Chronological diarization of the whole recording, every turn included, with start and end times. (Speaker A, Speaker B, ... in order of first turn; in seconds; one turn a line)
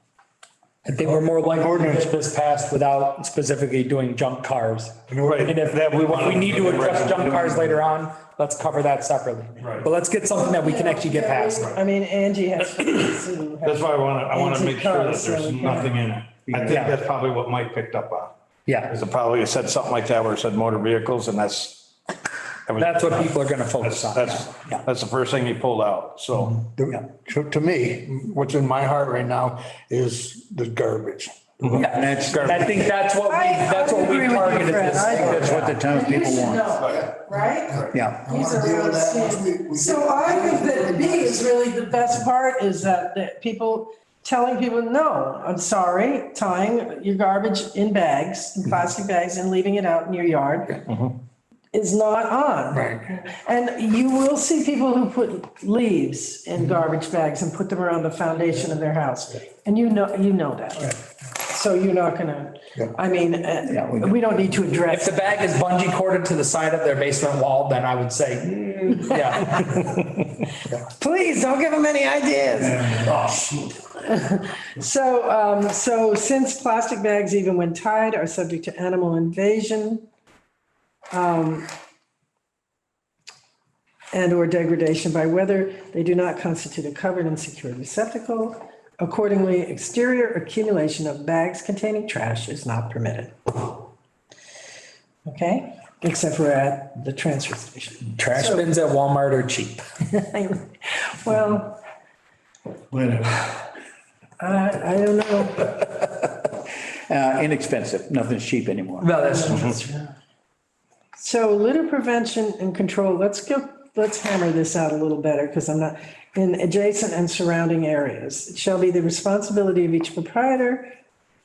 Speaker A: 0.9-11.7
Speaker B: 0.9-2.1
Speaker B: 5.1-5.6
Speaker C: 5.2-7.8
Speaker C: 9.6-9.9
Speaker D: 10.3-16.1
Speaker C: 13.6-18.3
Speaker E: 16.5-16.8
Speaker A: 16.6-16.9
Speaker A: 18.7-18.9
Speaker C: 18.9-21.9
Speaker C: 22.7-26.6
Speaker A: 22.8-24.3
Speaker E: 24.4-24.8
Speaker B: 26.8-31.3
Speaker C: 31.6-32.8
Speaker E: 31.7-32.8
Speaker A: 31.7-35.8
Speaker D: 33.3-50.8
Speaker E: 35.1-36.7
Speaker B: 37.7-41.2
Speaker E: 37.9-38.2
Speaker C: 50.9-51.2
Speaker D: 51.7-65.4
Speaker B: 52.7-53.2
Speaker E: 63.6-64.1
Speaker A: 64.9-69.6
Speaker D: 69.1-69.7
Speaker D: 71.0-80.0
Speaker D: 81.1-81.7
Speaker D: 84.1-93.8
Speaker D: 95.2-98.7
Speaker A: 98.1-99.8
Speaker D: 100.1-101.8
Speaker E: 102.9-103.5
Speaker D: 104.4-105.8
Speaker E: 106.9-109.2
Speaker A: 109.0-109.7
Speaker D: 109.2-110.1
Speaker D: 111.2-120.9